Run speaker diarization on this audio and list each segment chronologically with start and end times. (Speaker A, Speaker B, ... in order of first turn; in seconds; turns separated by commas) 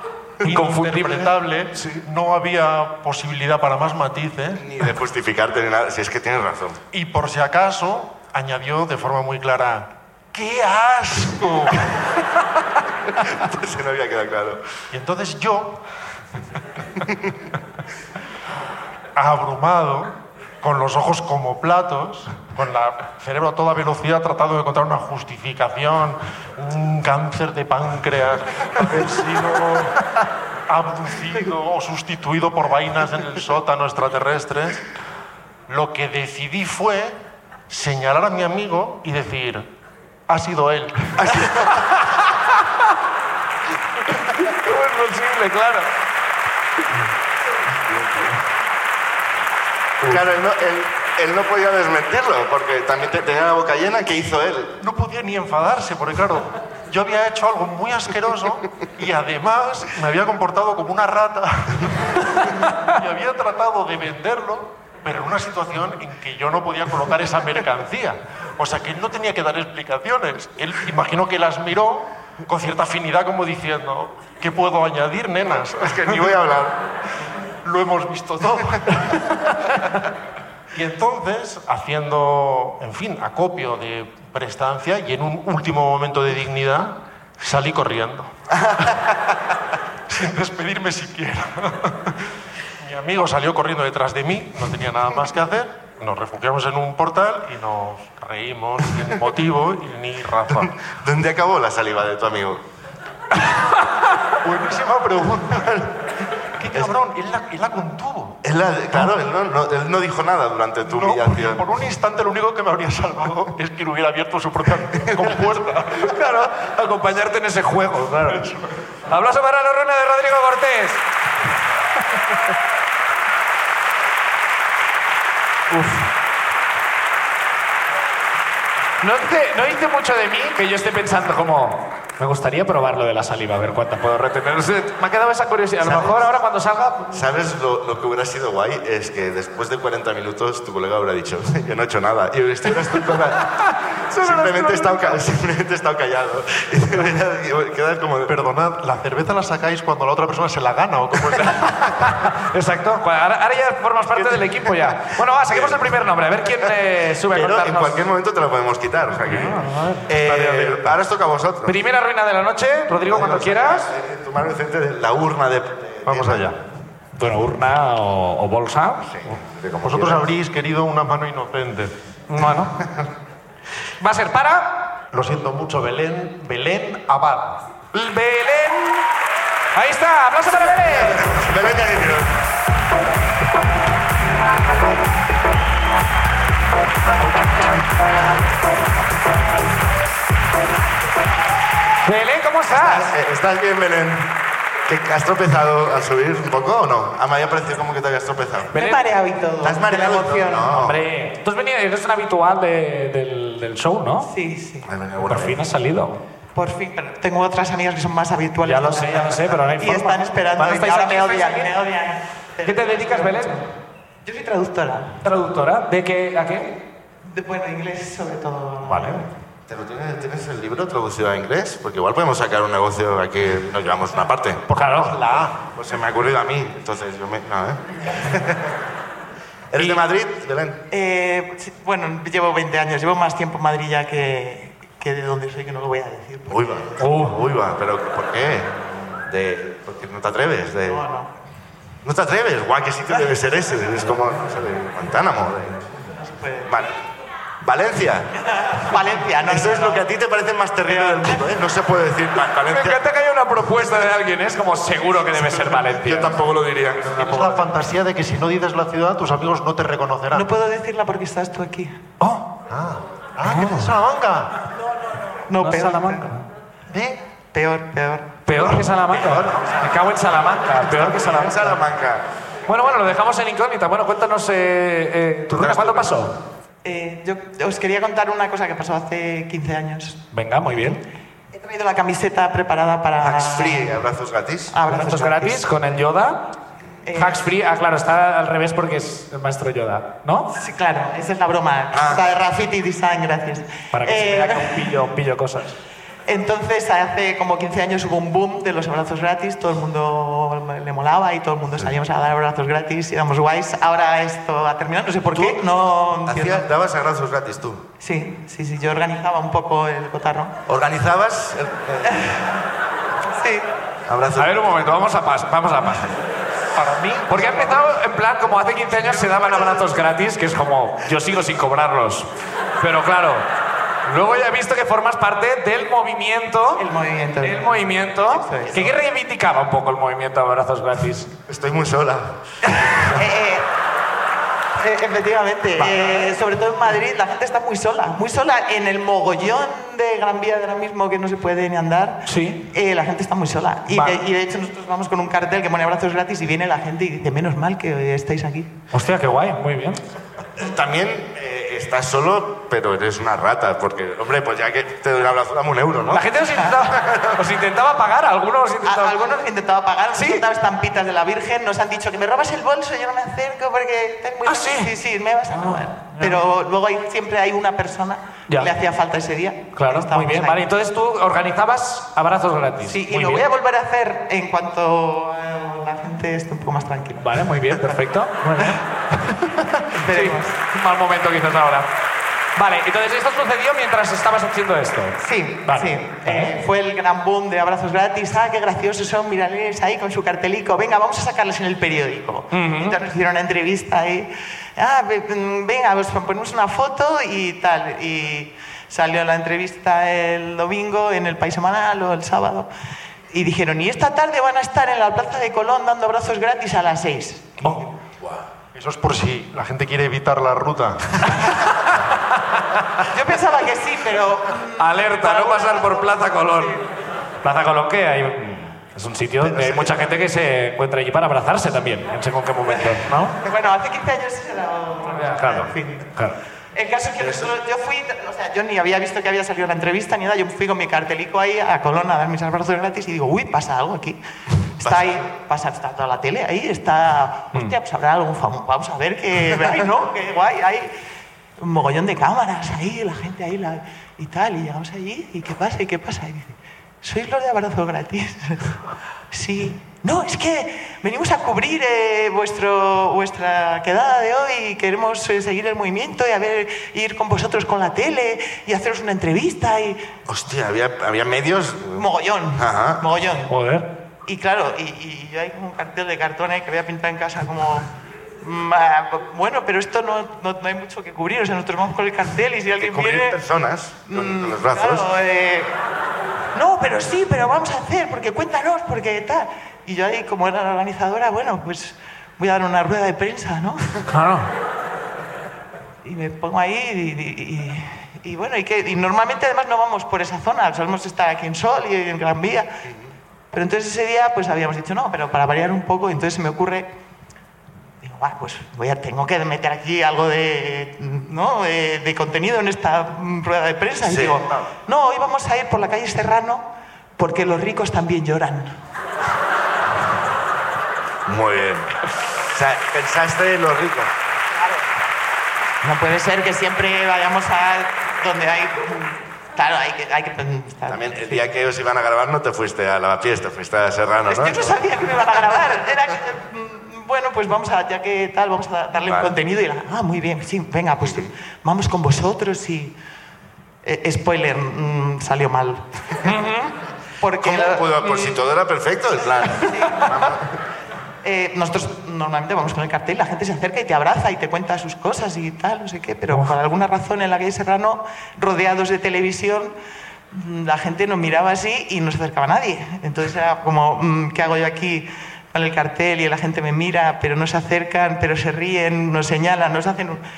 Speaker A: 0.4-4.7, Speaker B: 0.4-2.0, Speaker C: 4.6-6.8, Speaker A: 6.9-11.9, Speaker C: 13.2-14.6, Speaker A: 14.9-15.8, Speaker A: 19.1-30.0, Speaker A: 30.7-34.8, Speaker A: 35.7-37.2, Speaker A: 37.7-39.7, Speaker A: 40.3-41.3, Speaker C: 41.2-41.8, Speaker B: 44.4-45.9, Speaker C: 50.1-54.8, Speaker A: 54.8-76.5, Speaker C: 75.6-76.8, Speaker A: 77.6-79.6, Speaker A: 80.7-88.3, Speaker C: 88.7-88.9, Speaker A: 90.1-100.7, Speaker C: 100.5-102.6, Speaker A: 104.4-105.9, Speaker A: 106.6-108.4, Speaker C: 108.4-111.6, Speaker A: 110.8-116.1, Speaker B: 116.0-118.4, Speaker A: 118.2-118.8, Speaker B: 119.1-121.0, Speaker B: 125.7-126.1, Speaker B: 129.0-137.2, Speaker C: 135.8-136.2, Speaker C: 137.1-143.5, Speaker B: 143.6-145.2, Speaker C: 144.1-148.3, Speaker A: 148.2-152.2, Speaker B: 152.1-158.1, Speaker C: 154.1-155.8, Speaker C: 157.3-161.8, Speaker B: 159.2-160.9, Speaker B: 161.6-163.9, Speaker C: 163.1-166.5, Speaker A: 166.1-166.6, Speaker B: 167.2-169.2, Speaker C: 169.1-170.2, Speaker A: 169.8-171.9, Speaker B: 172.3-172.8, Speaker B: 174.0-174.9, Speaker A: 175.1-177.6, Speaker B: 177.9-179.1, Speaker B: 179.7-181.4, Speaker C: 181.0-182.4, Speaker B: 192.0-193.1, Speaker C: 192.7-194.3, Speaker C: 194.9-198.7, Speaker D: 198.7-200.7, Speaker B: 198.7-199.0, Speaker C: 199.6-201.0, Speaker B: 200.7-204.3, Speaker D: 204.2-204.9, Speaker C: 204.9-205.6, Speaker B: 205.2-206.2, Speaker D: 206.5-213.6, Speaker B: 208.6-211.7, Speaker B: 212.7-213.6, Speaker D: 214.2-215.2, Speaker B: 215.2-216.8, Speaker D: 217.2-219.2, Speaker B: 218.8-219.2, Speaker C: 219.7-224.6, Speaker A: 224.7-225.6, Speaker B: 224.7-225.2, Speaker C: 225.7-228.7, Speaker C: 229.7-230.8, Speaker D: 230.9-236.9, Speaker C: 236.5-241.0, Speaker B: 237.0-237.4, Speaker D: 240.8-241.3, Speaker C: 242.0-245.8, Speaker D: 246.2-246.7, Speaker C: 246.7-247.0, Speaker C: 247.6-248.3, Speaker D: 248.6-250.1, Speaker C: 248.9-253.0, Speaker D: 250.8-251.5, Speaker B: 252.7-256.4, Speaker C: 255.3-257.1, Speaker A: 257.0-260.5, Speaker B: 257.1-257.6, Speaker D: 260.3-261.9, Speaker B: 262.2-262.5, Speaker A: 262.7-264.5, Speaker B: 263.4-263.9, Speaker D: 265.5-266.3, Speaker B: 265.6-266.4, Speaker A: 266.9-267.2, Speaker D: 267.5-268.3, Speaker B: 268.5-271.8, Speaker C: 269.1-269.6, Speaker C: 270.8-272.2, Speaker B: 272.7-276.3, Speaker C: 275.5-276.1, Speaker D: 276.8-280.2, Speaker B: 280.3-281.0, Speaker D: 281.5-284.0, Speaker C: 283.2-284.8, Speaker D: 284.7-285.7, Speaker B: 284.9-286.4, Speaker D: 287.0-287.4, Speaker B: 287.1-290.5, Speaker D: 290.5-294.9, Speaker C: 291.9-292.2, Speaker B: 293.9-295.8, Speaker D: 296.3-306.7, Speaker C: 305.3-305.6, Speaker C: 306.2-307.8, Speaker D: 308.0-310.5, Speaker C: 310.7-312.2, Speaker D: 312.1-312.4, Speaker D: 313.3-313.7, Speaker C: 314.1-314.9, Speaker B: 314.4-316.1, Speaker A: 316.7-317.8, Speaker B: 317.3-322.3, Speaker B: 322.8-323.4, Speaker B: 324.1-326.8, Speaker D: 326.8-328.9, Speaker B: 327.4-331.3, Speaker C: 331.5-332.4, Speaker D: 332.8-333.7, Speaker D: 334.8-348.7, Speaker B: 335.8-336.1, Speaker B: 342.2-342.6, Speaker B: 343.9-344.2, Speaker B: 348.9-350.0, Speaker C: 350.6-356.3, Speaker B: 356.1-359.2, Speaker C: 356.8-357.4, Speaker D: 358.8-370.6, Speaker B: 360.1-360.4, Speaker B: 364.4-364.9, Speaker B: 365.5-366.4, Speaker B: 369.8-373.4, Speaker D: 372.8-377.3, Speaker B: 377.2-381.9, Speaker D: 379.9-380.6, Speaker B: 382.6-386.5, Speaker D: 385.2-402.7, Speaker B: 392.5-393.0, Speaker D: 403.3-407.8, Speaker A: 408.7-411.4, Speaker D: 413.1-416.8, Speaker B: 414.8-416.8, Speaker B: 417.4-423.3, Speaker C: 419.4-419.9, Speaker D: 422.7-426.1, Speaker B: 425.1-426.4, Speaker D: 426.7-440.9, Speaker C: 427.2-427.5, Speaker C: 434.8-435.2, Speaker D: 441.6-448.8, Speaker D: 449.3-460.0, Speaker C: 460.3-462.1, Speaker D: 461.9-463.5, Speaker C: 462.6-463.0, Speaker B: 463.5-463.9, Speaker D: 464.2-467.9, Speaker D: 468.4-473.4, Speaker C: 472.8-475.1, Speaker D: 474.1-475.7, Speaker D: 476.5-484.1, Speaker B: 484.1-484.5, Speaker D: 486.0-492.7, Speaker C: 492.9-493.1, Speaker D: 493.5-496.9, Speaker D: 498.0-506.6, Speaker C: 504.0-504.7, Speaker D: 507.2-508.8, Speaker C: 511.2-514.1, Speaker D: 515.8-521.5, Speaker C: 520.9-524.7, Speaker D: 524.3-532.9, Speaker C: 529.0-529.3, Speaker C: 531.0-531.3, Speaker D: 533.8-536.3, Speaker B: 536.2-536.7, Speaker D: 537.2-538.2, Speaker C: 537.4-540.5, Speaker D: 539.5-540.2, Speaker D: 541.2-549.7, Speaker D: 550.3-560.2